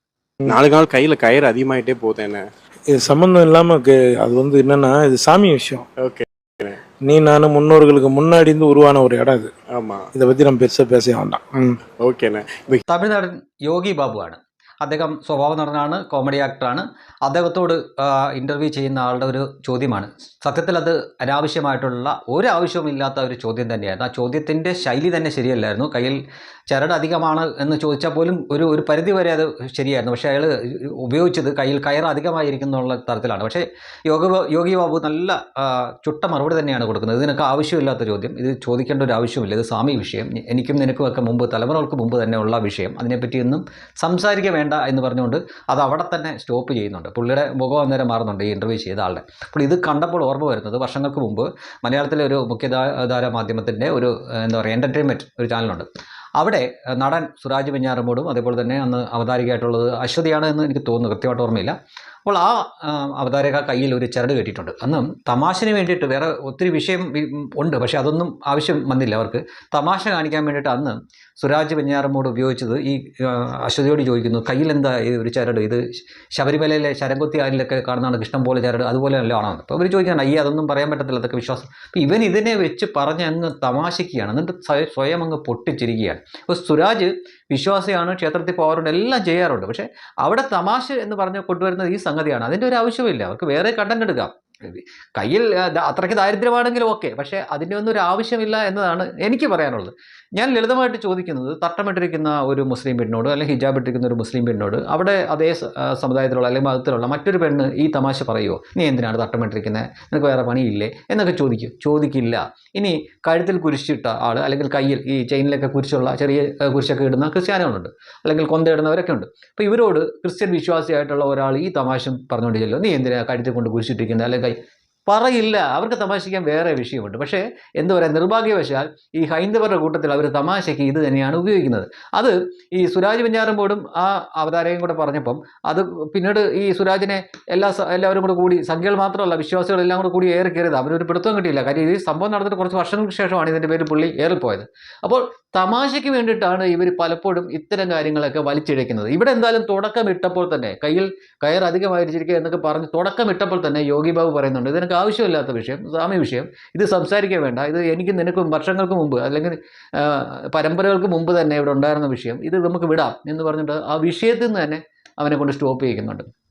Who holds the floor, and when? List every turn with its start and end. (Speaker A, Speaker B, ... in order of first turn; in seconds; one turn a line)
Speaker A: 0.4-2.4
Speaker B: 2.9-5.9
Speaker A: 6.0-6.8
Speaker B: 7.0-9.5
Speaker A: 9.7-10.0
Speaker B: 10.1-11.8
Speaker A: 12.0-12.8
Speaker C: 12.9-55.9
Speaker C: 56.4-61.7
Speaker C: 62.2-124.6
Speaker C: 125.1-166.3